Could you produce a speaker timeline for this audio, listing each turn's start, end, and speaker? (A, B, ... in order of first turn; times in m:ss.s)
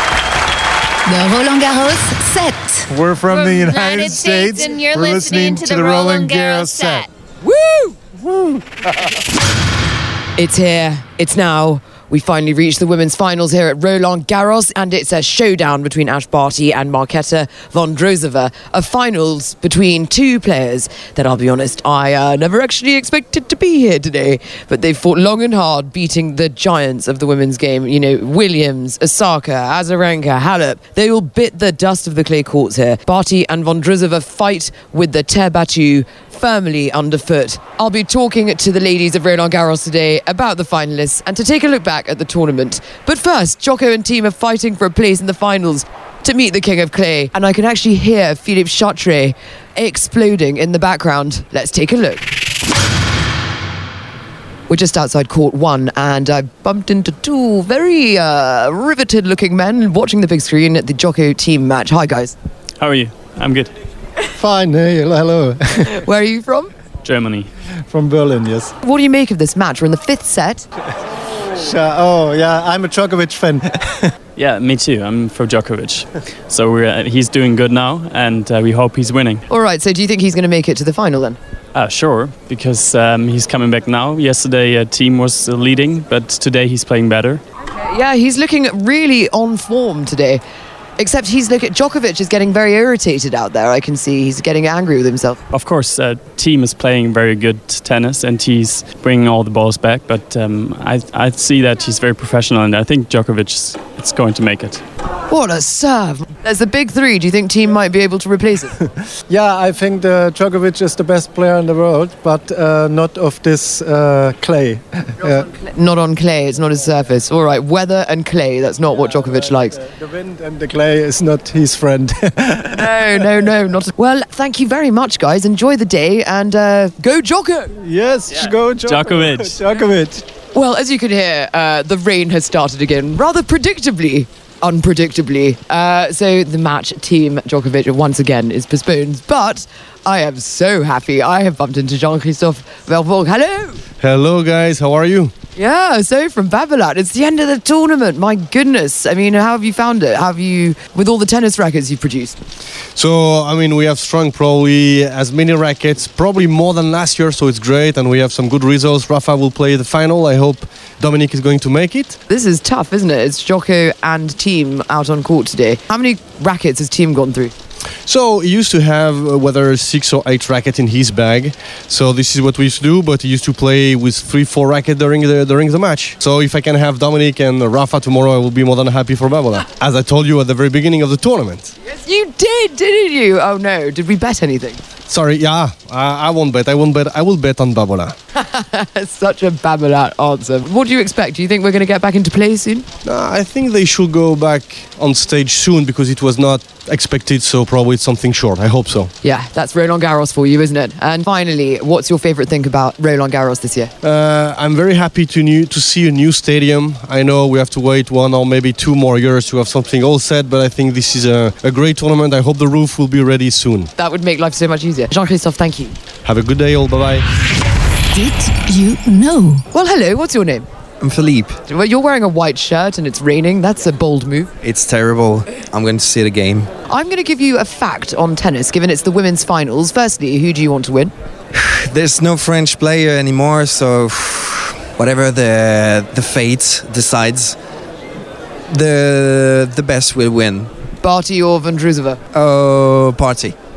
0:01.1-0:07.1 A
0:02.9-0:07.0 B
0:07.4-0:08.0 C
0:10.4-0:52.3 C
0:54.7-1:02.4 C
1:02.8-1:03.7 D
1:04.4-1:06.0 B
1:05.9-1:06.7 C
1:07.0-1:07.5 D
1:07.9-1:08.7 B
1:08.8-1:10.6 C
1:11.6-1:14.1 B
1:14.4-1:19.4 D
1:19.5-1:21.4 C
1:21.8-1:27.4 D
1:27.7-1:30.4 C
1:31.0-1:35.4 C
1:35.5-1:44.8 D
1:45.3-1:48.8 C
1:49.3-1:55.4 B
1:55.3-1:59.8 C
1:59.2-2:03.0 B
2:02.7-2:07.8 C
2:07.8-2:10.2 B
2:08.8-2:09.6 D
2:10.5-2:23.8 C
2:24.0-2:25.3 E
2:25.6-2:32.4 C
2:33.0-2:42.2 E
2:42.3-2:47.5 C
2:48.1-3:01.7 E
3:01.8-3:04.8 C
3:05.1-3:08.2 E
3:08.4-3:12.8 C
3:13.1-3:19.1 E
3:19.2-3:23.9 C
3:24.0-3:33.9 E
3:34.0-3:36.0 C
3:36.3-3:37.2 E
3:39.7-3:40.7 C
3:41.0-3:41.6 F
3:41.6-3:44.5 C
3:44.6-3:46.7 F
3:46.9-3:51.1 C
3:51.5-3:57.6 F
3:58.7-4:00.7 F
4:01.0-4:02.2 C
4:02.3-4:03.6 F